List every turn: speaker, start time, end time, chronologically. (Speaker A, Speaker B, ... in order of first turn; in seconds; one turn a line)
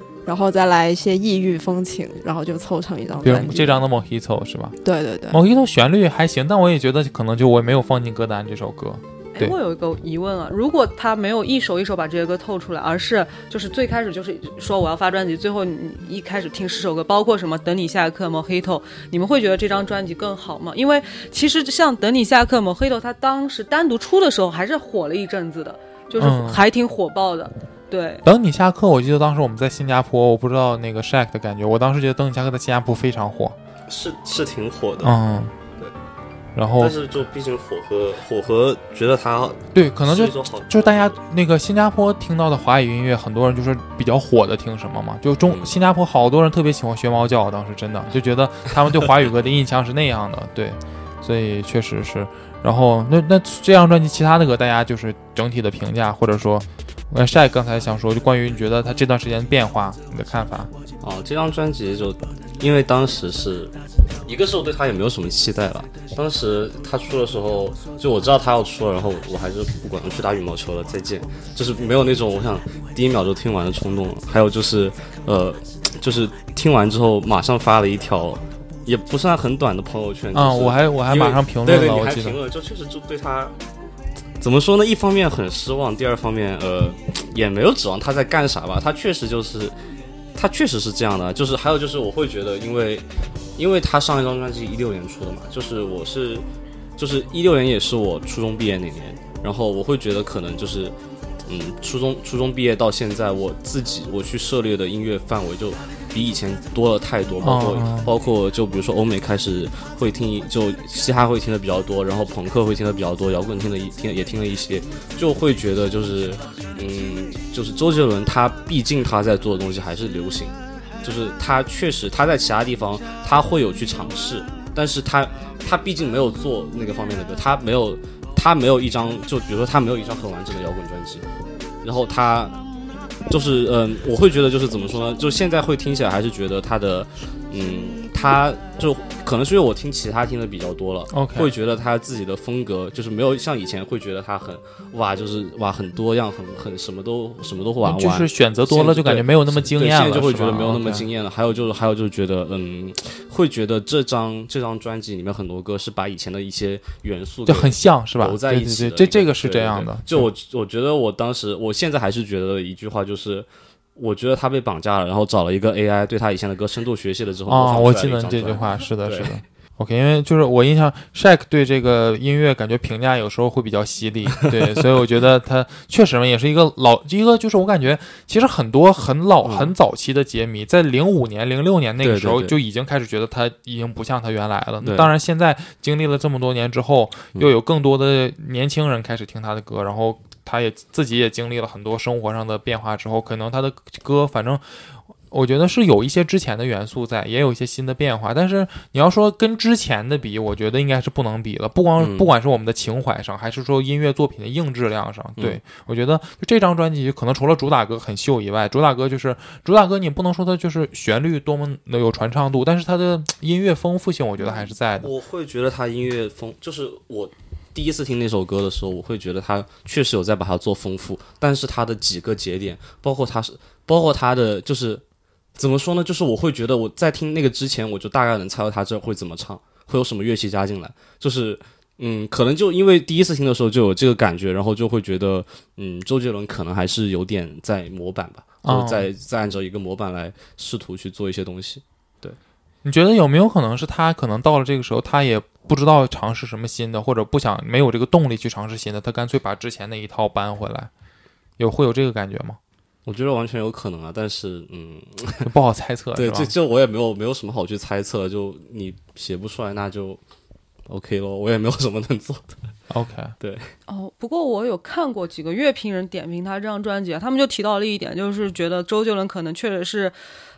Speaker A: 0.3-3.8
Speaker B: 3.2-4.8
Speaker A: 4.8-5.4
Speaker B: 5.3-9.6
Speaker C: 9.3-28.2
Speaker B: 26.2-26.6
Speaker B: 28.2-33.5
Speaker D: 33.9-35.1
Speaker B: 35.0-35.5
Speaker B: 36.6-37.0
Speaker D: 36.8-41.2
Speaker B: 39.7-60.7
Speaker D: 45.5-45.8
Speaker D: 61.0-63.7
Speaker D: 64.3-83.6
Speaker B: 80.3-82.4
Speaker D: 84.4-89.8
Speaker D: 90.3-96.5
Speaker D: 97.0-101.0
Speaker D: 101.5-131.3
Speaker B: 107.4-108.1
Speaker D: 131.8-132.6
Speaker D: 133.3-169.3
Speaker B: 141.1-141.5
Speaker B: 147.8-151.1
Speaker B: 157.5-160.3
Speaker B: 167.5-215.1
Speaker D: 174.5-174.8
Speaker D: 179.4-179.7
Speaker D: 182.0-182.6
Speaker D: 184.8-185.1
Speaker D: 202.0-202.3
Speaker C: 214.4-214.7
Speaker D: 215.0-225.0
Speaker D: 225.6-242.4
Speaker B: 238.6-239.1
Speaker B: 242.8-250.9
Speaker B: 251.6-252.6
Speaker D: 253.1-255.5
Speaker B: 255.4-256.5
Speaker D: 256.1-260.2
Speaker D: 260.9-262.6
Speaker B: 262.9-263.4
Speaker D: 263.4-263.7
Speaker C: 263.9-270.1